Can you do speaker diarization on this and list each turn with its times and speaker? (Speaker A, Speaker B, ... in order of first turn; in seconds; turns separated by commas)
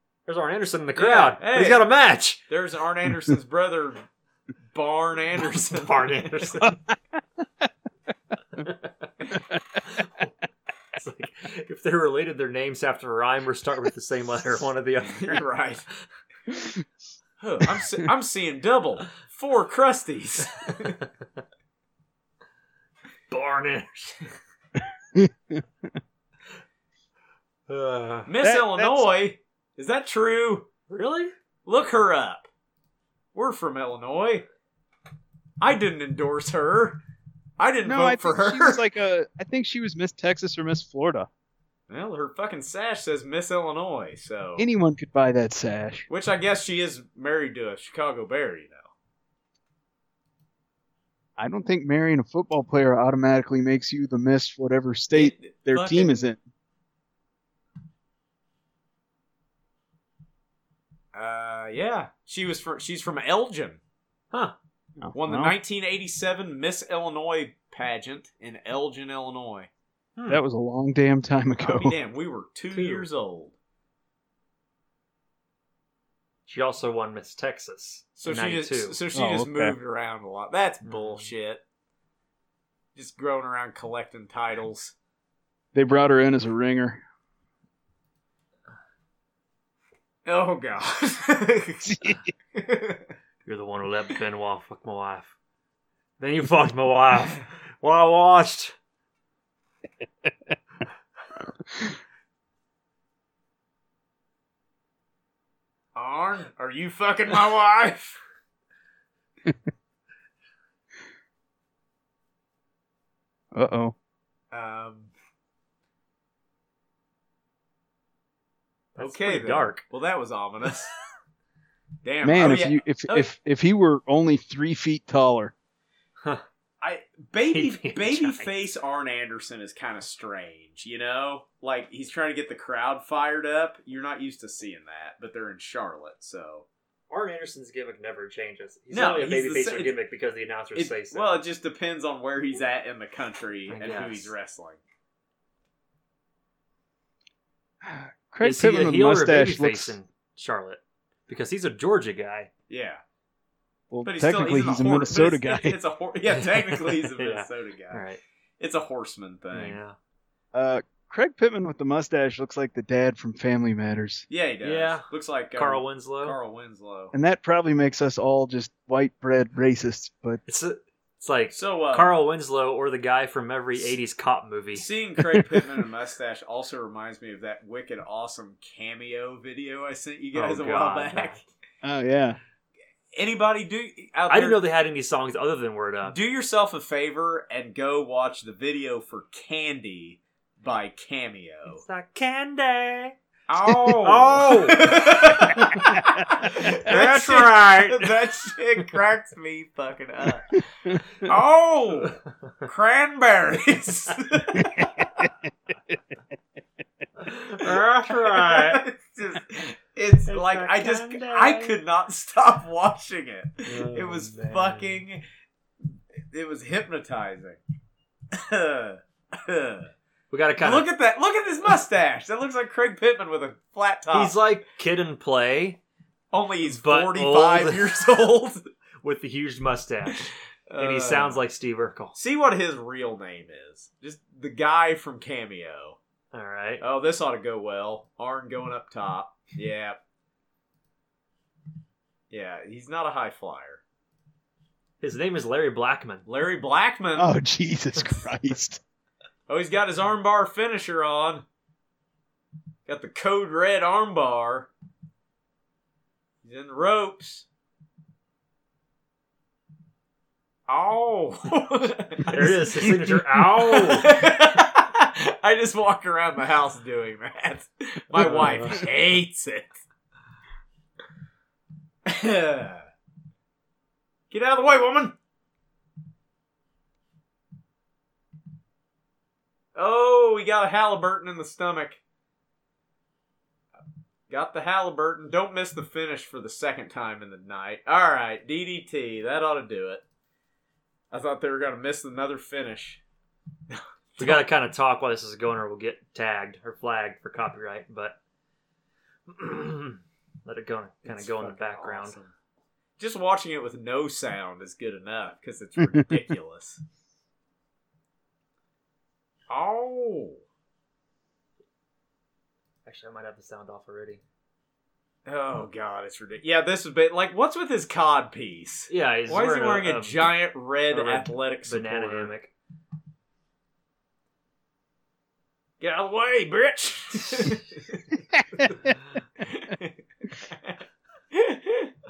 Speaker A: 0.2-2.4, Speaker B: 0.9-1.9, Speaker B: 2.5-4.0, Speaker B: 4.7-6.7, Speaker A: 5.4-6.7, Speaker A: 9.8-10.3, Speaker A: 10.9-15.4, Speaker B: 15.0-15.8, Speaker B: 17.4-21.0, Speaker A: 20.6-20.9, Speaker A: 23.3-24.2, Speaker C: 25.1-25.6, Speaker A: 27.7-28.3, Speaker B: 28.2-30.7, Speaker C: 28.4-29.1, Speaker A: 30.9-31.3, Speaker B: 31.6-32.5, Speaker B: 33.3-34.5, Speaker B: 35.6-37.0, Speaker B: 37.6-38.8, Speaker C: 37.8-41.3, Speaker B: 41.9-44.6, Speaker C: 44.6-46.0, Speaker B: 46.1-48.9, Speaker C: 51.4-56.4, Speaker B: 55.1-56.3, Speaker B: 61.1-63.8, Speaker C: 65.0-65.5, Speaker B: 65.1-69.7, Speaker A: 70.2-70.4, Speaker C: 70.3-72.0, Speaker B: 71.6-73.5, Speaker A: 72.7-73.1, Speaker A: 76.5-79.0, Speaker B: 78.2-81.6, Speaker C: 79.1-79.8, Speaker A: 80.9-81.2, Speaker B: 82.9-84.9, Speaker C: 85.7-87.0, Speaker B: 90.2-93.0, Speaker C: 91.9-92.2, Speaker A: 93.5-95.3, Speaker A: 96.2-98.7, Speaker B: 105.9-108.2, Speaker C: 113.5-113.9, Speaker B: 114.5-115.1, Speaker A: 119.0-119.8, Speaker B: 119.0-120.9, Speaker B: 122.0-123.3, Speaker C: 122.2-125.5, Speaker B: 126.8-136.7, Speaker A: 127.5-128.5, Speaker A: 137.1-141.3, Speaker B: 138.9-139.9, Speaker B: 140.7-144.8, Speaker A: 143.7-144.3, Speaker C: 147.8-149.9, Speaker A: 148.4-152.5, Speaker B: 152.7-153.0, Speaker C: 153.9-155.8, Speaker B: 154.0-158.0, Speaker A: 156.3-158.2, Speaker B: 158.6-159.8, Speaker A: 159.5-159.9, Speaker C: 160.5-164.2, Speaker B: 164.3-167.1, Speaker A: 164.6-166.4, Speaker C: 167.1-170.4, Speaker A: 170.5-174.8, Speaker B: 171.5-172.1, Speaker B: 174.7-181.4, Speaker A: 180.3-181.4, Speaker C: 181.8-182.4, Speaker B: 183.1-184.6, Speaker A: 184.3-186.2, Speaker B: 186.1-191.8, Speaker A: 191.7-193.2, Speaker B: 193.5-204.7, Speaker A: 194.0-194.9, Speaker A: 195.6-196.0, Speaker A: 196.6-198.0, Speaker C: 204.8-205.3, Speaker A: 207.2-208.8, Speaker B: 207.6-215.2, Speaker A: 210.3-211.8, Speaker A: 213.7-215.0, Speaker B: 216.3-217.6, Speaker B: 218.3-219.9, Speaker A: 220.3-220.8, Speaker B: 220.6-224.4, Speaker A: 224.1-225.8, Speaker B: 226.3-228.7, Speaker A: 226.7-228.0, Speaker A: 229.0-232.2, Speaker B: 230.7-231.4, Speaker B: 232.1-236.0, Speaker A: 236.3-236.8, Speaker B: 236.8-240.0, Speaker B: 242.3-243.8, Speaker A: 245.0-246.2, Speaker B: 246.2-247.3, Speaker C: 247.2-248.8, Speaker B: 249.5-251.4, Speaker B: 252.9-254.7, Speaker B: 256.4-257.4, Speaker B: 260.7-269.7, Speaker A: 262.3-264.1, Speaker A: 268.1-268.8, Speaker B: 272.1-272.8, Speaker B: 274.3-275.1, Speaker B: 279.7-282.0, Speaker B: 284.3-290.0, Speaker B: 291.1-293.0, Speaker B: 293.7-294.4, Speaker A: 294.2-298.2, Speaker A: 299.3-302.2, Speaker B: 301.1-302.3, Speaker B: 303.0-306.8, Speaker B: 309.5-310.4, Speaker A: 312.9-314.2, Speaker B: 315.2-322.3, Speaker A: 318.9-320.2, Speaker A: 320.9-322.5, Speaker B: 325.8-328.0, Speaker B: 329.4-330.8, Speaker B: 331.3-331.9